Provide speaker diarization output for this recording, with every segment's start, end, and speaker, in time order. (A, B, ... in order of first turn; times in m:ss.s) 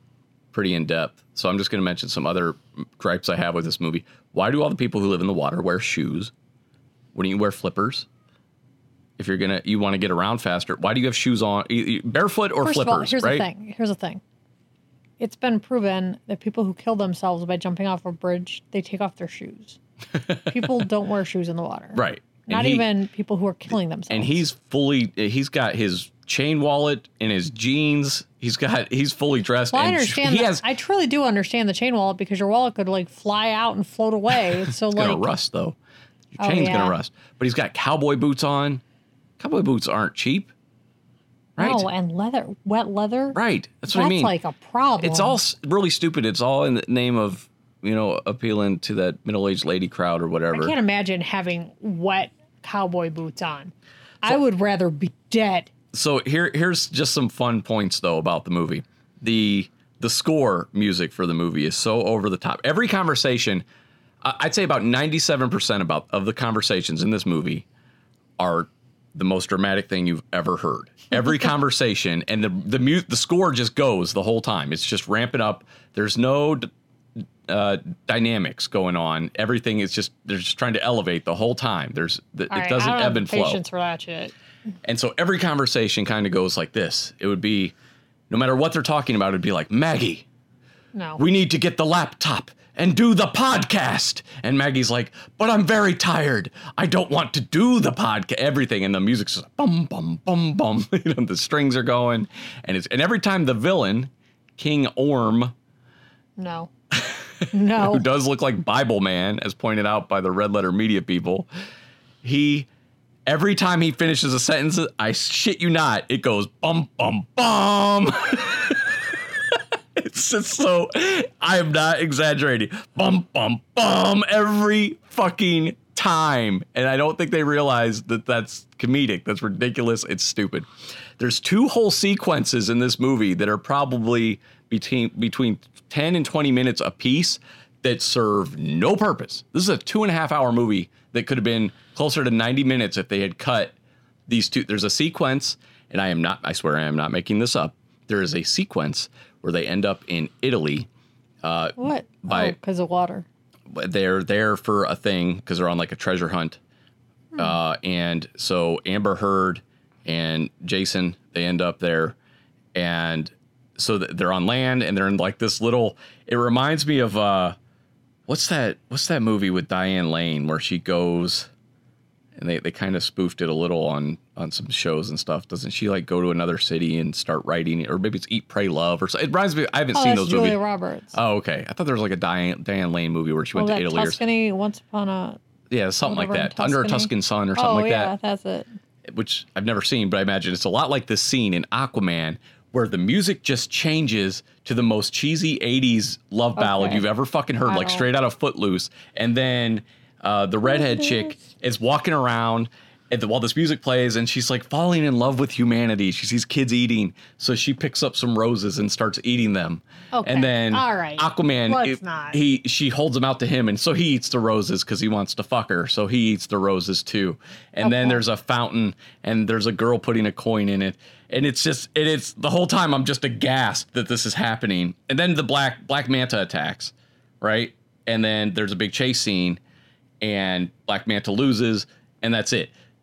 0:00.5-0:06.3 A
0:07.1-0:08.1 A
0:09.2-0:13.4 A
0:12.6-0:14.2 B
0:15.2-0:19.8 B
0:20.4-0:24.4 B
0:21.9-0:22.9 A
0:24.1-0:30.6 A
0:29.7-0:35.3 B
0:34.9-0:35.8 A
0:36.4-0:37.0 B
0:36.4-0:38.8 A
0:39.4-0:40.5 A
0:41.6-0:41.9 A
0:41.6-0:43.4 B
0:43.3-0:44.3 A
0:43.9-0:45.4 B
0:45.0-0:50.8 A
0:50.5-0:55.7 B
0:55.9-1:03.6 A
1:04.2-1:07.7 A
1:08.4-1:16.7 A
1:17.5-1:23.6 A
1:22.5-1:24.4 B
1:24.8-1:27.7 A
1:28.3-1:30.3 A
1:30.9-1:31.2 B
1:31.2-1:45.5 A
1:46.4-1:46.7 B
1:46.9-1:51.5 A
1:47.5-1:48.0 B
1:52.2-1:52.7 A
1:53.3-2:23.8 A
2:24.3-2:30.9 A
2:31.4-2:32.6 A
2:31.8-2:33.3 B
2:33.7-2:36.6 A
2:37.4-2:42.2 A
2:42.7-2:47.6 A
2:48.3-2:51.5 A
2:52.4-3:00.6 A
2:59.9-3:01.2 B
3:01.1-3:04.2 A
3:03.6-3:05.4 B
3:05.7-3:08.1 A
3:06.0-3:08.7 B
3:09.1-3:49.6 A
3:16.6-3:17.0 B
3:17.7-3:18.0 B
3:30.1-3:32.4 B
3:37.8-3:38.2 B
3:50.2-3:52.7 A